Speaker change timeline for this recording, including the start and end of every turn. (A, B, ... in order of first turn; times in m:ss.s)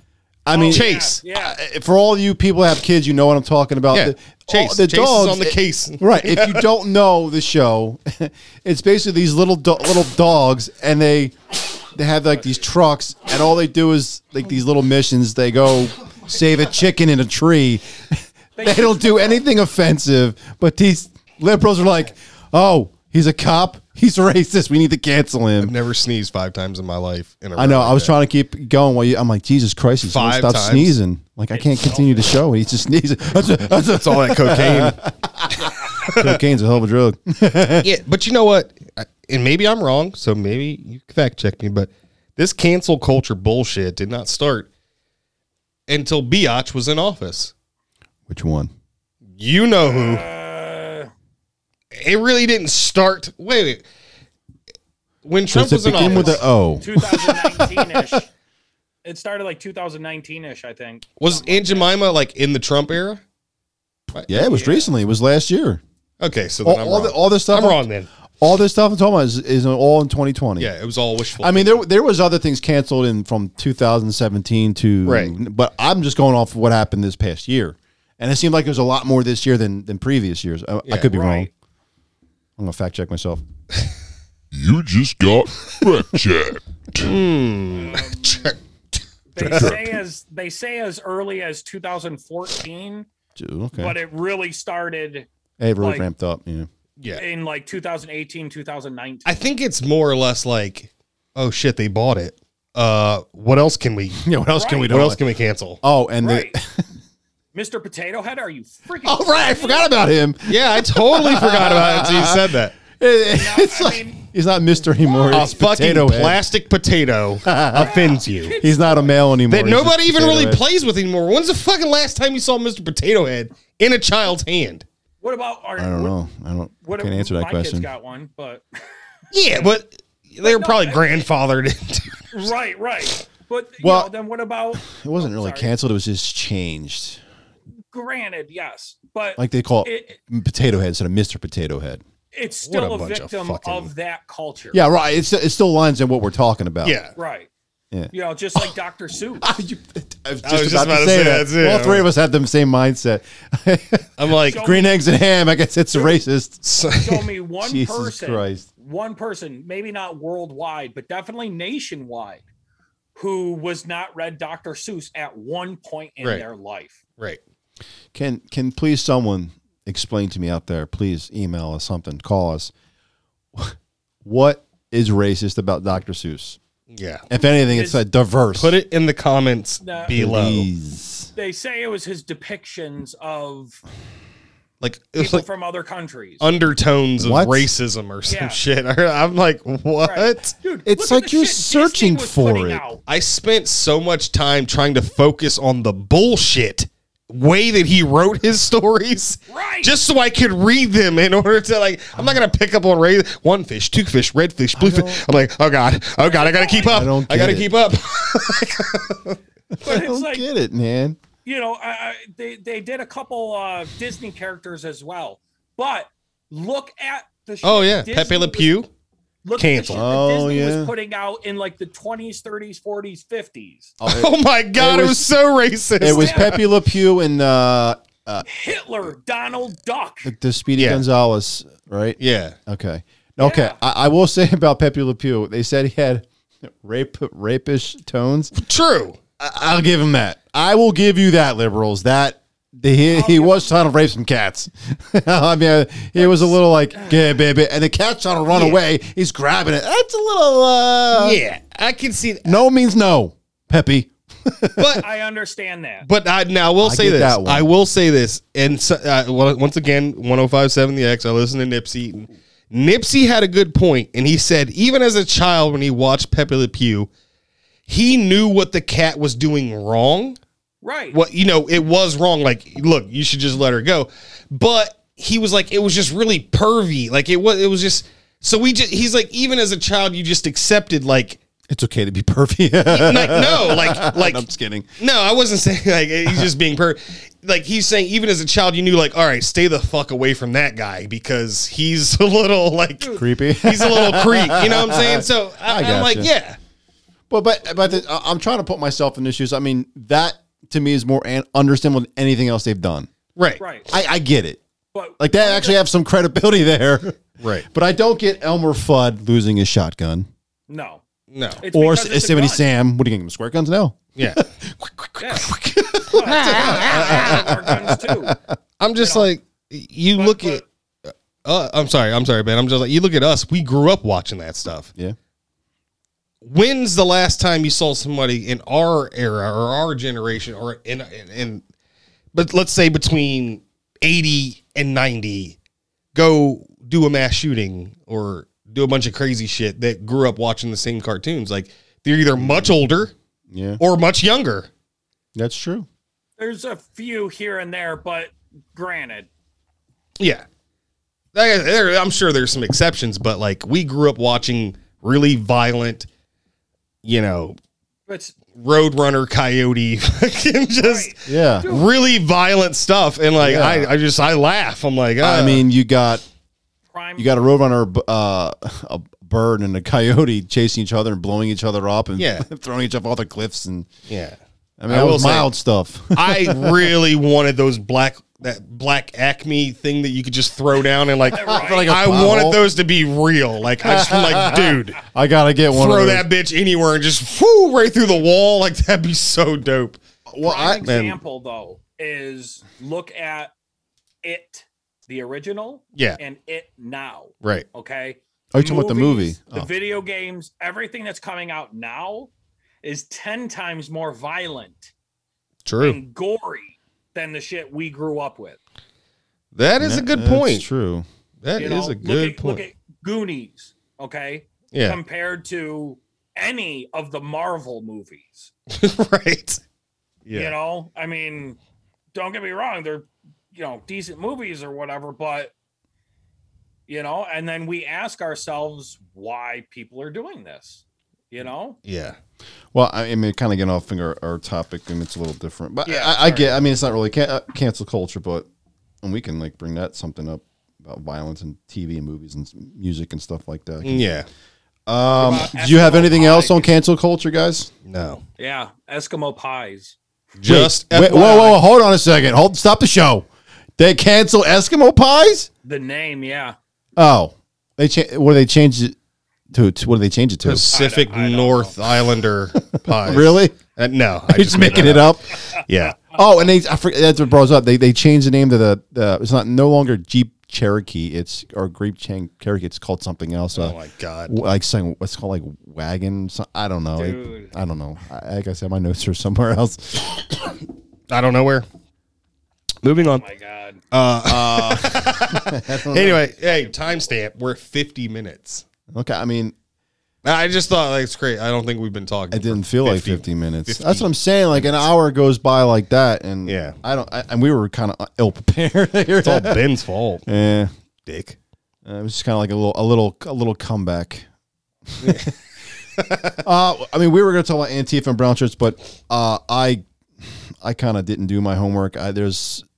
0:00.4-0:11.4 A
0:00.5-0:01.6 B
0:00.6-0:01.2 C
0:03.9-0:06.7 C
0:11.9-0:25.7 A
0:18.6-0:19.4 B
0:25.6-0:28.1 C
0:27.6-0:37.9 A
0:30.0-0:30.9 C
0:31.5-0:32.4 B
0:33.9-0:35.0 C
0:35.6-0:36.4 C
0:37.8-0:44.7 C
0:45.9-0:47.5 C
0:48.3-0:48.7 A
0:49.4-0:50.2 C
0:49.8-0:51.1 B
0:51.9-0:53.8 C
0:55.2-0:56.4 C
0:55.5-0:58.0 A
0:55.8-0:58.3 B
0:59.0-1:01.9 B
1:01.2-1:03.2 C
1:04.3-1:05.8 A
1:04.3-1:04.9 B
1:06.2-1:08.1 C
1:06.6-1:07.8 A
1:08.4-1:10.7 A
1:10.6-1:11.8 C
1:11.4-1:21.5 A
1:15.0-1:15.3 C
1:20.9-1:21.1 C
1:21.0-1:21.5 B
1:22.6-1:23.4 A
1:24.5-1:27.1 D
1:27.0-1:28.6 C
1:27.7-1:28.5 B
1:29.3-1:33.0 B
1:29.4-1:29.8 C
1:33.4-1:33.9 A
1:33.7-1:35.3 B
1:35.6-1:36.7 A
1:35.8-1:36.1 B
1:37.1-1:39.4 B
1:39.2-1:44.2 C
1:44.2-1:45.2 A
1:44.6-1:45.0 B
1:44.9-1:45.8 C
1:45.8-1:46.8 A
1:46.2-1:46.6 B
1:47.5-1:49.9 B
1:49.0-1:56.4 A
1:50.4-1:52.7 C
1:53.3-1:54.2 B
1:55.0-1:55.6 B
1:55.3-1:58.6 C
1:57.4-1:57.9 A
1:57.7-1:59.1 B
1:58.6-2:00.6 A
1:59.5-2:04.8 C
2:05.2-2:06.2 B
2:05.8-2:07.9 A
2:06.8-2:08.6 B
2:09.3-2:12.5 C
2:10.4-2:11.3 B
2:12.3-2:15.7 B
2:13.8-2:14.1 A
2:14.7-2:17.2 A
2:17.9-2:20.2 B
2:19.4-2:22.0 A
2:22.3-2:24.8 B
2:22.6-2:23.9 C
2:24.7-2:27.0 A
2:26.8-2:27.1 C
2:27.2-2:27.5 B
2:27.9-2:28.7 A
2:28.1-2:29.5 B
2:29.4-2:36.6 A
2:30.4-2:32.1 C
2:34.2-2:34.6 C
2:34.4-2:34.9 B
2:35.9-2:36.2 B
2:36.6-2:37.2 C
2:37.0-2:42.4 B
2:37.6-2:38.6 A
2:43.1-2:47.0 B
2:48.1-2:52.7 A
2:53.5-2:56.6 A
2:56.9-2:57.2 C
2:57.3-2:58.7 A
2:57.7-2:58.0 B
2:58.6-3:00.7 C
2:59.8-3:00.2 B
3:00.1-3:01.3 A
3:01.4-3:03.8 B
3:04.8-3:05.4 C
3:05.2-3:06.4 B
3:06.4-3:10.5 C
3:07.2-3:07.7 A
3:08.2-3:08.6 B
3:10.0-3:13.0 B
3:10.9-3:12.8 A
3:13.1-3:29.4 C
3:19.5-3:19.9 B
3:24.8-3:25.2 A
3:26.2-3:27.0 B
3:26.9-3:27.7 A
3:29.7-3:31.2 A
3:29.8-3:30.4 B
3:31.4-3:38.7 B
3:37.6-3:38.9 C
3:39.4-3:43.9 B
3:39.6-3:40.1 C
3:39.9-3:40.9 A
3:44.0-3:45.2 A
3:44.0-3:46.6 C
3:46.0-3:48.4 A
3:46.0-3:46.6 B
3:48.4-3:50.3 B
3:50.2-3:58.5 A
3:50.8-3:51.0 C
3:52.2-3:52.6 C
3:53.4-3:53.8 B
3:58.6-3:59.2 C
3:59.4-4:11.4 A
4:03.0-4:03.8 B
4:06.2-4:07.2 B
4:08.5-4:08.8 C
4:11.1-4:12.6 C
4:12.4-4:15.0 A
4:14.8-4:15.0 C
4:14.9-4:16.1 B
4:16.0-4:27.1 C
4:16.8-4:17.7 A
4:27.9-4:30.4 C
4:30.8-4:31.2 B
4:31.1-4:41.4 C
4:41.7-4:44.9 A
4:42.9-4:44.4 C
4:45.0-4:56.6 C
4:53.0-4:53.3 B
4:53.2-4:56.3 A
4:57.3-5:03.1 A
5:03.4-5:03.6 C
5:03.6-5:03.9 B
5:03.9-5:04.6 A
5:04.9-5:05.8 B
5:05.2-5:10.3 A
5:07.4-5:07.7 C
5:10.7-5:11.0 B
5:11.3-5:11.6 C
5:11.6-5:12.6 B
5:11.7-5:18.6 A
5:14.2-5:14.4 C
5:15.2-5:15.5 B
5:16.0-5:18.4 B
5:16.2-5:17.5 C
5:18.8-5:24.9 C
5:19.0-5:19.3 B
5:20.2-5:20.6 B
5:26.4-5:31.6 C
5:32.3-5:35.6 C
5:36.1-5:43.1 C
5:42.4-5:42.7 A
5:43.5-5:43.8 A
5:43.8-5:44.7 C
5:45.3-5:45.9 A
5:46.4-5:49.3 B
5:50.2-5:50.4 C
5:51.3-5:56.1 C
5:57.0-5:57.6 C
5:58.1-5:58.3 B
5:58.5-6:05.7 C
6:00.8-6:01.9 B
6:01.2-6:01.7 A
6:03.4-6:03.9 A
6:05.2-6:06.2 A
6:06.9-6:07.3 B
6:07.2-6:13.9 A
6:12.2-6:12.5 C
6:14.1-6:15.5 C
6:14.8-6:16.9 A
6:16.1-6:25.0 C
6:21.3-6:21.9 B
6:21.3-6:22.6 A
6:23.8-6:26.2 A
6:25.7-6:30.0 C
6:30.3-6:30.8 A
6:30.4-6:33.5 B
6:30.8-6:31.2 C
6:34.2-6:42.3 B
6:38.5-6:39.7 A
6:42.8-6:44.9 B
6:45.6-6:46.0 C
6:45.8-6:48.6 B
6:49.6-6:50.6 C
6:49.8-6:51.0 A
6:51.4-6:52.6 C
6:51.6-6:58.5 B
6:54.7-6:55.0 C
6:58.7-6:59.6 C
7:00.2-7:00.5 C
7:00.3-7:01.6 B
7:02.1-7:05.5 B
7:06.9-7:11.8 B
7:11.8-7:12.2 C
7:12.7-7:18.5 A
7:15.8-7:16.6 B
7:19.0-7:24.0 A
7:23.8-7:24.3 C
7:24.9-7:27.7 A
7:25.1-7:26.7 B
7:27.9-7:28.2 C
7:28.4-7:30.0 B
7:30.4-7:31.6 C
7:30.4-7:35.5 A
7:31.0-7:31.6 B
7:35.6-7:36.6 B
7:37.0-7:38.9 A
7:39.5-7:40.7 A
7:40.4-7:46.0 C
7:40.7-7:41.8 B
7:42.7-7:43.6 A
7:44.3-7:45.3 A
7:46.1-7:53.8 A
7:53.5-7:54.4 C
7:54.3-8:00.6 A
7:57.0-7:57.5 B
8:01.1-8:01.6 C
8:02.8-8:03.2 C
8:03.0-8:03.8 B
8:03.9-8:08.6 C
8:04.2-8:06.2 A
8:06.4-8:06.9 B
8:08.9-8:09.6 A
8:10.2-8:14.8 C
8:12.3-8:19.6 A
8:16.4-8:16.8 C
8:19.2-8:20.2 C
8:20.2-8:20.7 A
8:21.0-8:21.4 C
8:21.8-8:24.3 A
8:24.9-8:25.3 A
8:25.0-8:25.3 C
8:26.0-8:26.4 C
8:26.4-8:32.6 A